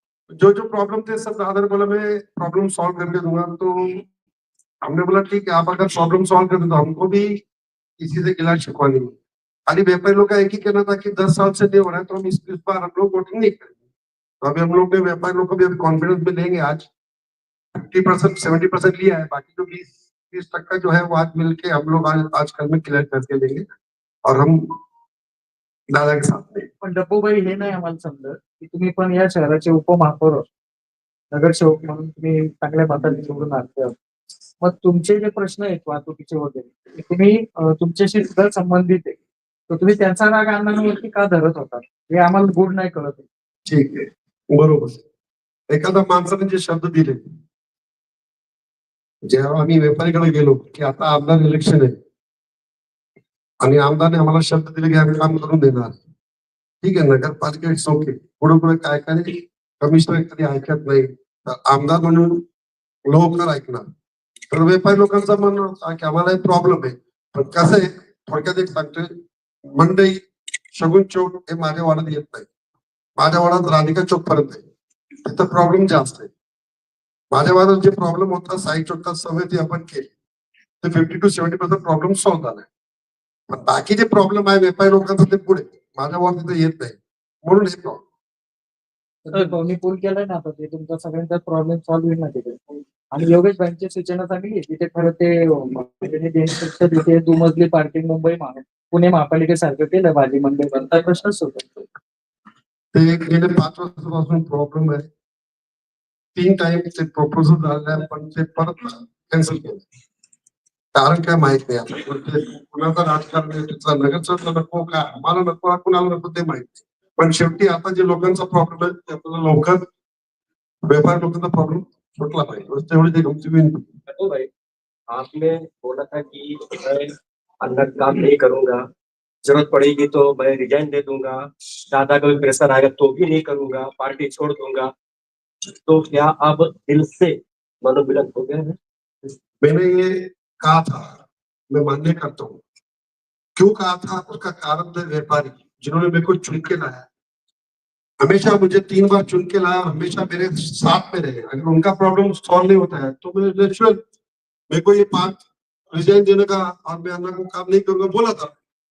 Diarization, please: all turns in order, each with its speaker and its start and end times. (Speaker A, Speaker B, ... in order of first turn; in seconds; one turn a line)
Speaker A: 0.3-4.0
Speaker A: 4.8-7.4
Speaker A: 8.0-9.1
Speaker A: 9.7-13.8
Speaker A: 14.4-16.9
Speaker A: 17.7-23.6
Speaker A: 24.2-24.6
Speaker A: 25.9-26.6
Speaker B: 26.8-30.4
Speaker B: 31.3-33.9
Speaker B: 34.6-39.1
Speaker B: 39.7-43.2
Speaker A: 43.7-45.0
Speaker A: 45.7-47.2
Speaker A: 49.3-52.0
Speaker A: 53.6-56.0
Speaker A: 56.8-62.4
Speaker A: 63.1-63.9
Speaker A: 64.5-69.1
Speaker A: 69.8-70.2
Speaker A: 70.8-72.5
Speaker A: 73.2-74.6
Speaker A: 75.2-76.3
Speaker A: 77.3-80.1
Speaker A: 80.8-82.7
Speaker A: 83.5-88.0
Speaker B: 89.3-101.9
Speaker A: 102.9-105.1
Speaker A: 106.3-109.8
Speaker A: 110.9-119.8
Speaker A: 120.8-123.8
Speaker C: 124.1-124.5
Speaker C: 125.1-128.8
Speaker C: 129.4-134.9
Speaker C: 135.8-138.8
Speaker A: 139.6-141.2
Speaker A: 141.7-142.6
Speaker A: 143.6-147.1
Speaker A: 148.2-154.0
Speaker A: 154.7-155.4
Speaker A: 155.9-158.5